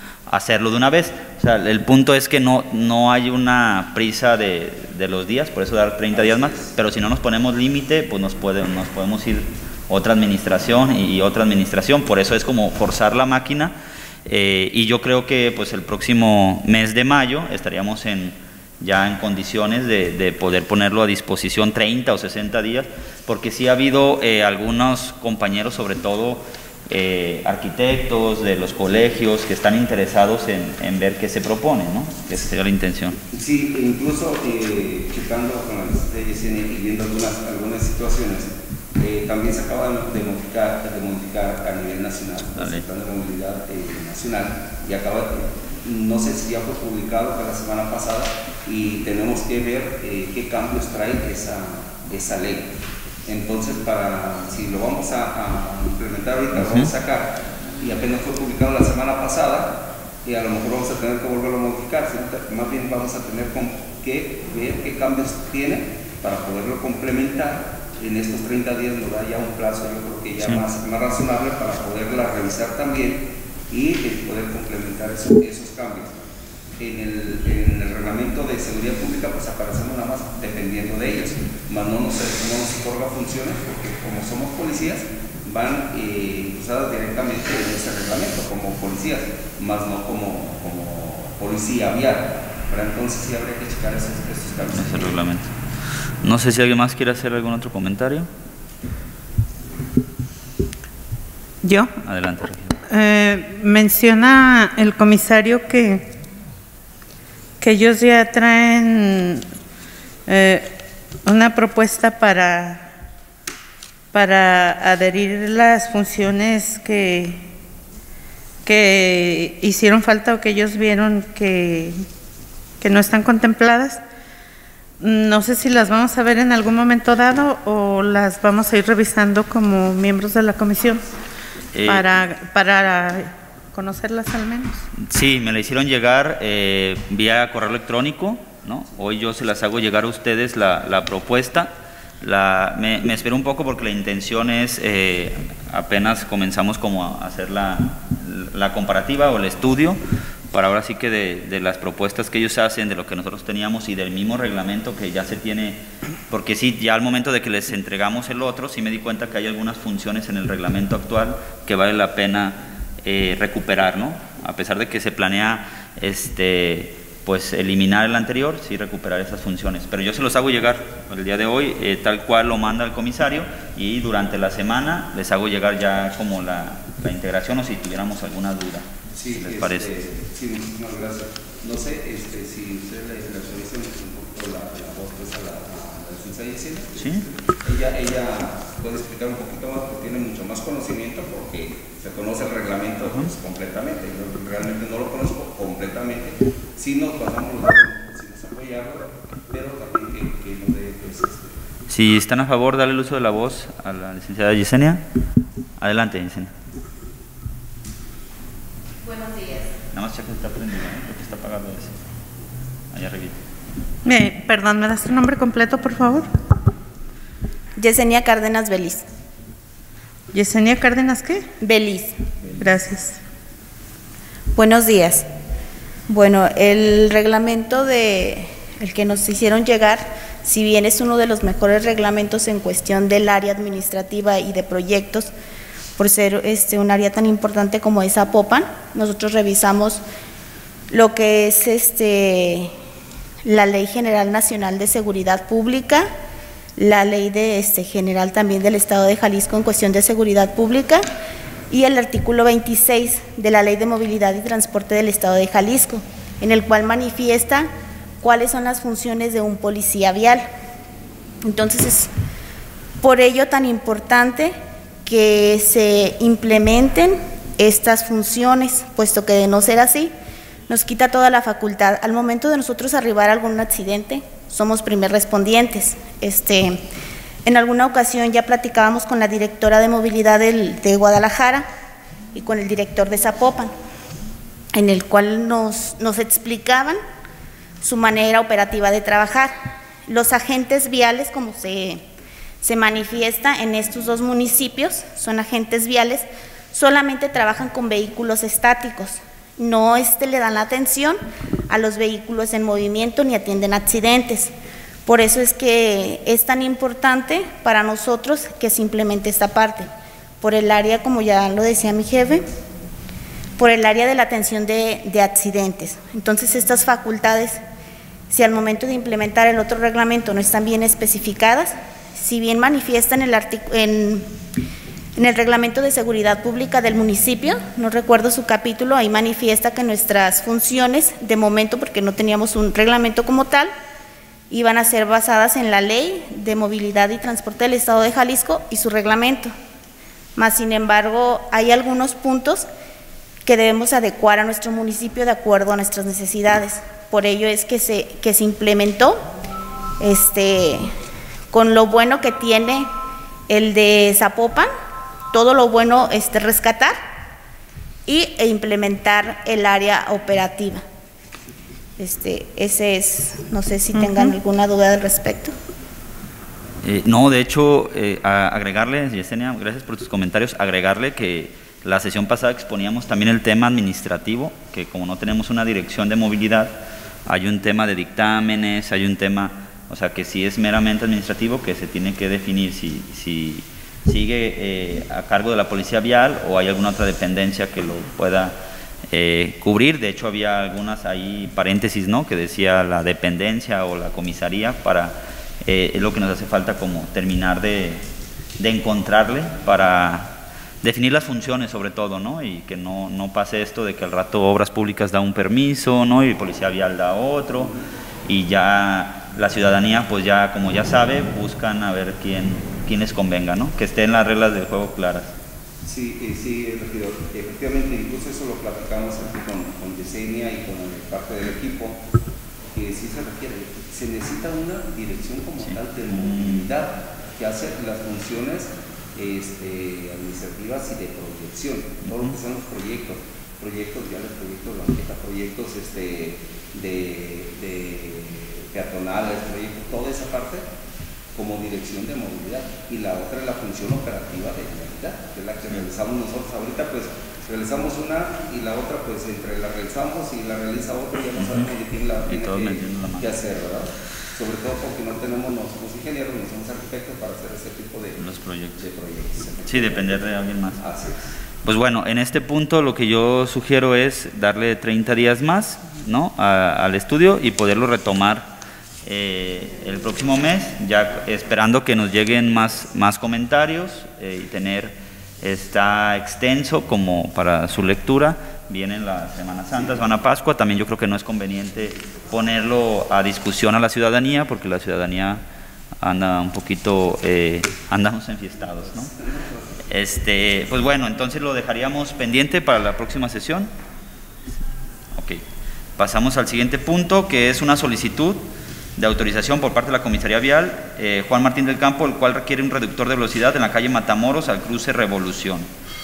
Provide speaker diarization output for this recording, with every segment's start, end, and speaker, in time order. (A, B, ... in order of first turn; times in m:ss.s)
0:00.3-0:33.2 A
0:06.1-0:06.7 B
0:33.3-1:35.2 B
0:42.6-0:42.8 A
0:56.6-0:56.9 A
1:34.7-1:35.5 A
1:36.2-1:38.3 A
1:41.6-1:41.9 C
1:42.0-1:42.8 A
1:42.9-1:46.1 C
1:47.6-1:49.4 C
1:50.3-1:52.9 C
1:54.1-1:57.4 C
1:58.6-2:02.0 C
2:02.8-2:04.0 C
2:05.0-2:11.0 C
2:11.7-2:12.1 A
2:11.8-2:14.8 C
2:15.0-2:30.0 A
2:30.5-2:59.9 A
2:59.1-3:21.6 B
3:07.0-3:07.3 A
3:21.9-3:25.0 A
3:25.8-3:26.5 A
3:29.0-3:29.7 D
3:29.9-3:32.0 A
3:32.9-3:33.4 A
3:34.0-3:36.3 C
3:37.8-3:39.0 D
3:40.3-3:41.5 C
3:41.6-3:42.2 D
3:42.6-3:43.2 C
3:44.5-3:45.3 D
3:46.1-3:55.3 D
3:56.0-4:00.0 D
4:00.9-4:02.7 D
4:03.4-4:06.1 D
4:06.8-4:11.0 D
4:11.7-4:17.7 D
4:18.2-4:20.5 D
4:21.4-4:22.1 D
4:23.0-4:30.1 D
4:30.7-4:36.8 D
4:37.4-4:41.7 D
4:42.3-4:43.7 D
4:44.7-4:47.0 D
4:47.8-4:49.5 D
4:50.1-4:52.0 D
4:52.6-5:04.5 D
5:05.0-5:09.9 D
5:10.4-5:12.5 D
5:13.6-5:17.6 D
5:18.3-5:24.3 D
5:25.2-5:33.7 D
5:34.5-5:39.5 D
5:40.4-5:42.7 D
5:43.4-5:49.2 D
5:50.0-5:50.9 D
5:51.5-5:52.9 D
5:53.5-5:54.7 D
5:55.3-5:57.0 D
5:58.1-6:00.8 D
6:02.0-6:05.5 D
6:06.8-6:28.6 A
6:29.1-6:38.0 A
6:38.6-6:47.7 A
6:48.2-6:55.3 A
6:55.8-7:02.0 B
7:02.7-7:20.6 B
7:05.6-7:06.7 A
7:12.0-7:12.3 A
7:21.3-7:40.2 B
7:31.4-7:31.7 A
7:32.3-7:33.3 A
7:38.2-7:38.9 A
7:39.6-7:40.8 A
7:40.8-7:41.3 B
7:41.6-7:48.5 A
7:49.0-8:05.4 A
8:06.0-8:09.1 A
8:08.8-8:09.9 B
8:09.9-8:13.7 A
8:15.1-8:15.4 A
8:16.0-8:18.4 A
8:19.0-8:25.7 A